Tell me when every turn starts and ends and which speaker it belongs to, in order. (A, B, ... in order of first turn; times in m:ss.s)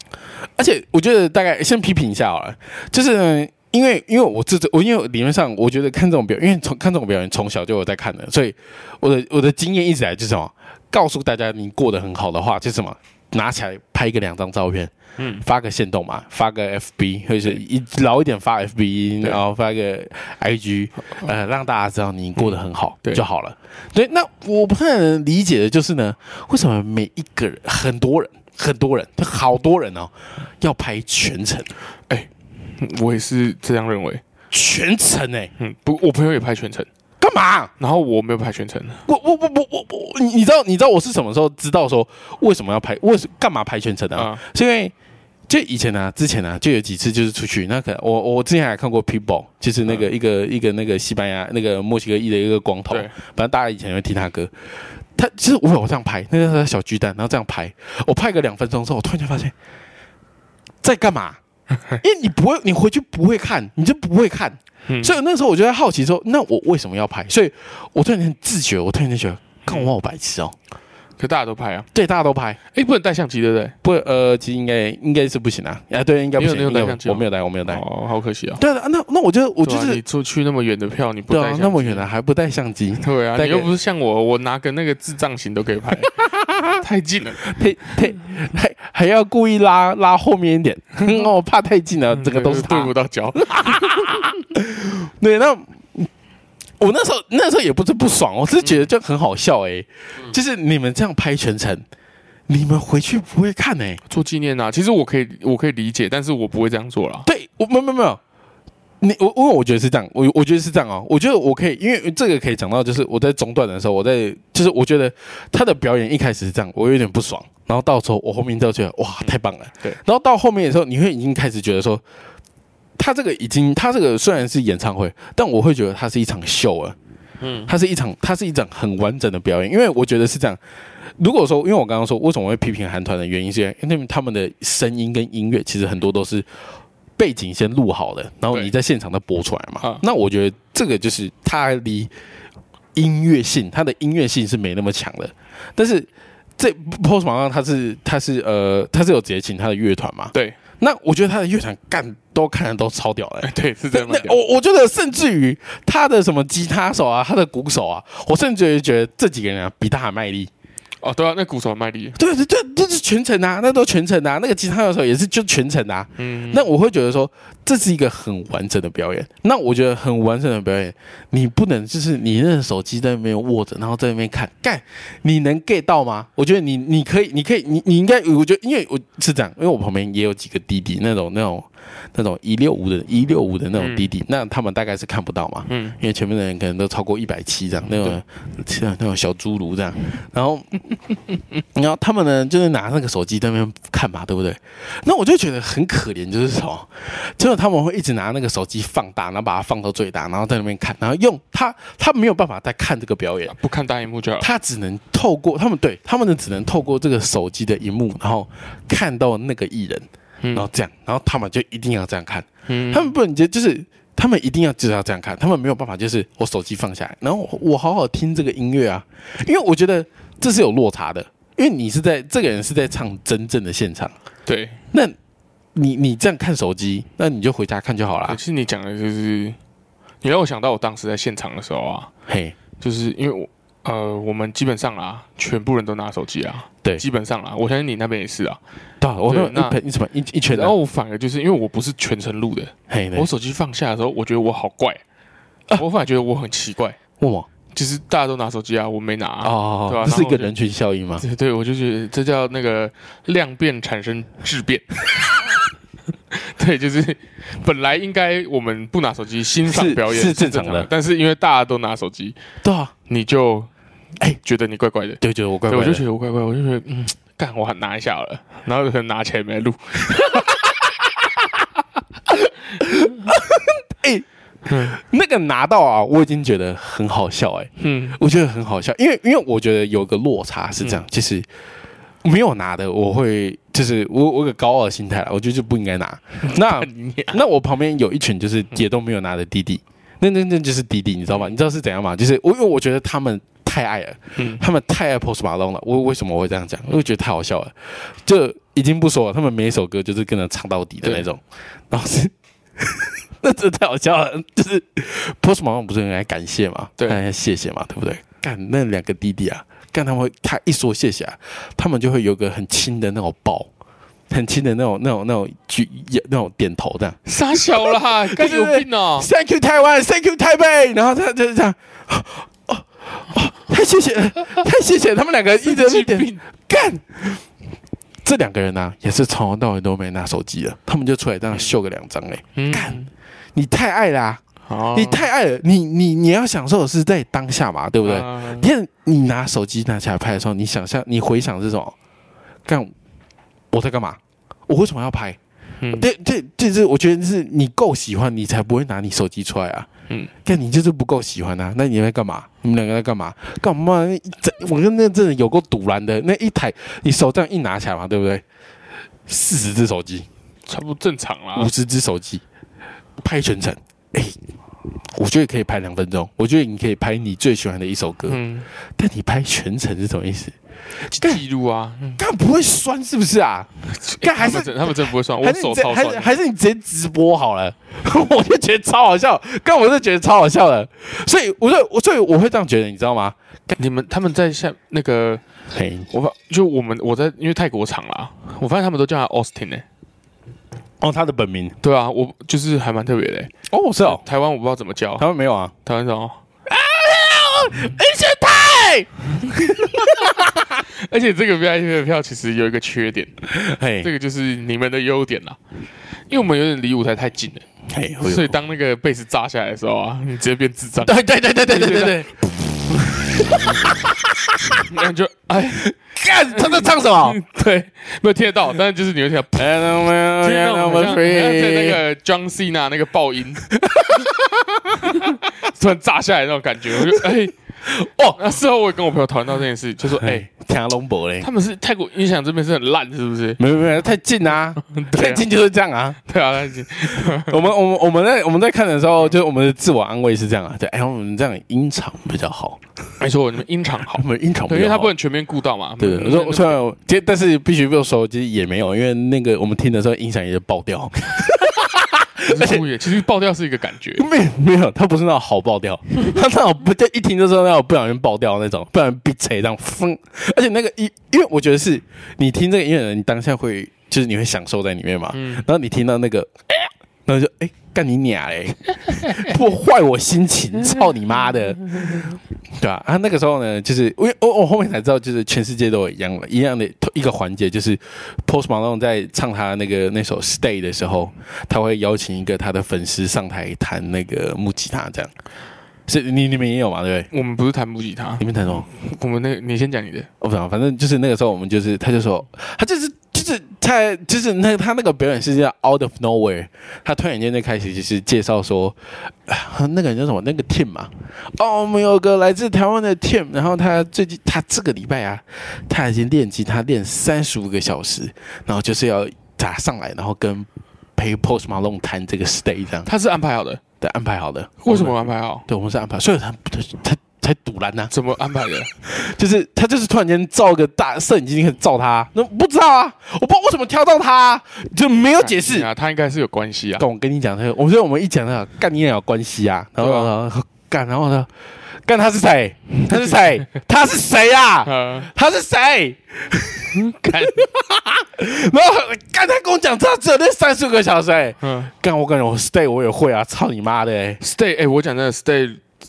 0:00.6-0:31.7 A
0:15.2-0:15.4 B
0:22.4-0:23.2 B
0:32.1-0:34.2 B
0:34.5-0:35.5 A
0:35.6-0:36.9 B
0:37.2-0:37.7 A
0:37.8-0:39.0 B
0:39.1-0:44.9 A
0:44.2-0:44.4 B
0:45.5-0:54.5 A
0:55.2-0:59.5 A
1:00.8-1:01.4 A
1:01.9-1:10.6 A
1:04.9-1:05.2 B
1:11.2-1:11.9 B
1:11.9-1:12.6 A
1:12.7-1:13.8 B
1:13.8-1:17.8 A
1:16.4-1:18.6 B
1:18.6-1:20.0 A
1:19.6-1:22.1 B
1:21.3-1:23.7 A
1:23.0-1:26.1 B
1:26.2-1:26.8 A
1:26.8-1:27.4 B
1:27.4-1:36.1 A
1:32.1-1:34.2 B
1:36.8-1:41.8 A
1:38.6-1:38.9 B
1:42.5-1:44.0 A
1:44.1-1:47.3 B
1:47.2-1:48.2 A
1:49.0-2:02.0 A
2:03.0-2:07.0 A
2:07.4-2:07.7 B
2:07.7-2:10.6 A
2:11.2-2:16.5 A
2:17.2-2:22.1 A
2:23.0-2:40.5 A
2:33.4-2:34.4 B
2:41.0-2:42.2 B
2:42.2-3:10.8 A
2:46.2-2:46.6 B
3:03.8-3:04.1 B
3:05.7-3:06.0 B
3:11.7-3:23.5 A
3:23.5-3:24.5 B
3:24.4-3:44.1 A
3:30.4-3:30.7 B
3:32.7-3:33.1 B
3:44.5-3:44.8 B
3:45.8-3:48.4 A
3:48.3-3:49.6 B
3:50.2-3:52.1 B
3:52.3-3:52.6 A
3:52.8-3:58.6 B
3:59.0-4:00.8 A
3:59.3-3:59.8 B
4:00.5-4:05.0 B
4:02.9-4:03.3 A
4:05.8-4:07.0 B
4:07.2-4:07.5 A
4:07.7-4:10.5 B
4:09.4-4:11.2 A
4:11.2-4:14.9 B
4:16.3-4:22.4 B
4:19.7-4:20.9 A
4:22.6-4:22.9 A
4:23.1-4:23.7 B
4:24.4-4:30.6 B
4:25.2-4:26.0 A
4:32.8-4:41.5 A
4:34.7-4:35.0 B
4:37.8-4:38.2 B
4:42.2-5:13.7 A
4:46.4-4:47.4 B
4:54.4-4:54.6 B
5:14.3-5:27.5 A
5:17.2-5:19.3 B
5:25.6-5:26.4 B
5:28.2-5:34.4 A
5:32.6-5:33.1 B
5:34.7-5:35.3 B
5:34.9-5:42.0 A
5:38.0-5:38.7 B
5:42.7-5:42.9 A
5:43.7-5:45.4 A
5:45.8-5:46.1 B
5:45.9-5:49.9 A
5:50.4-5:58.4 A
5:59.3-6:00.3 A
6:00.7-6:01.7 B
6:01.6-6:02.4 A
6:03.2-6:04.4 A
6:05.1-6:10.6 A
6:08.3-6:08.7 B
6:11.1-6:12.2 B
6:12.2-6:23.8 A
6:14.0-6:16.3 B
6:23.8-6:25.4 B
6:25.7-6:26.1 A
6:26.1-6:29.8 B
6:31.0-6:31.8 A
6:31.8-6:33.5 B
6:33.7-6:34.2 A
6:34.0-6:35.2 B
6:35.2-6:35.7 A
6:35.8-6:36.4 B
6:36.7-6:40.8 A
6:40.9-6:43.3 B
6:43.5-6:44.1 A
6:44.0-6:45.6 B
6:46.3-6:47.6 B
6:47.9-6:48.5 A
6:48.2-6:52.3 B
6:51.0-6:54.9 A
6:54.9-6:55.9 B
6:55.8-6:57.4 A
6:56.5-6:59.8 B
6:59.5-7:02.0 A
7:00.4-7:03.7 B
7:03.7-7:05.4 A
7:05.1-7:07.5 B
7:07.0-7:07.3 A
7:07.8-7:08.4 A
7:08.4-7:10.5 B
7:10.1-7:11.5 A
7:11.4-7:13.6 B
7:13.6-7:16.2 A
7:14.8-7:15.4 B
7:16.2-7:17.6 B
7:17.0-7:22.8 A
7:23.2-7:26.8 B
7:24.1-7:25.1 A
7:26.0-7:32.9 A
7:32.5-7:34.2 B
7:34.2-8:05.3 A
7:45.3-7:45.6 B
8:06.1-8:07.3 A
8:07.3-8:10.3 B
8:08.4-8:08.9 A
8:10.4-8:33.1 A
8:33.0-8:33.8 B
8:34.0-8:38.1 A
8:34.8-8:35.6 B
8:38.1-8:38.9 B
8:39.0-8:45.9 A
8:45.4-8:47.0 B
8:47.0-8:51.5 A
8:50.0-8:50.3 B
8:52.0-9:04.4 A
8:54.8-8:55.3 B
8:57.0-8:57.6 B
9:01.6-9:01.9 B
9:04.4-9:05.8 B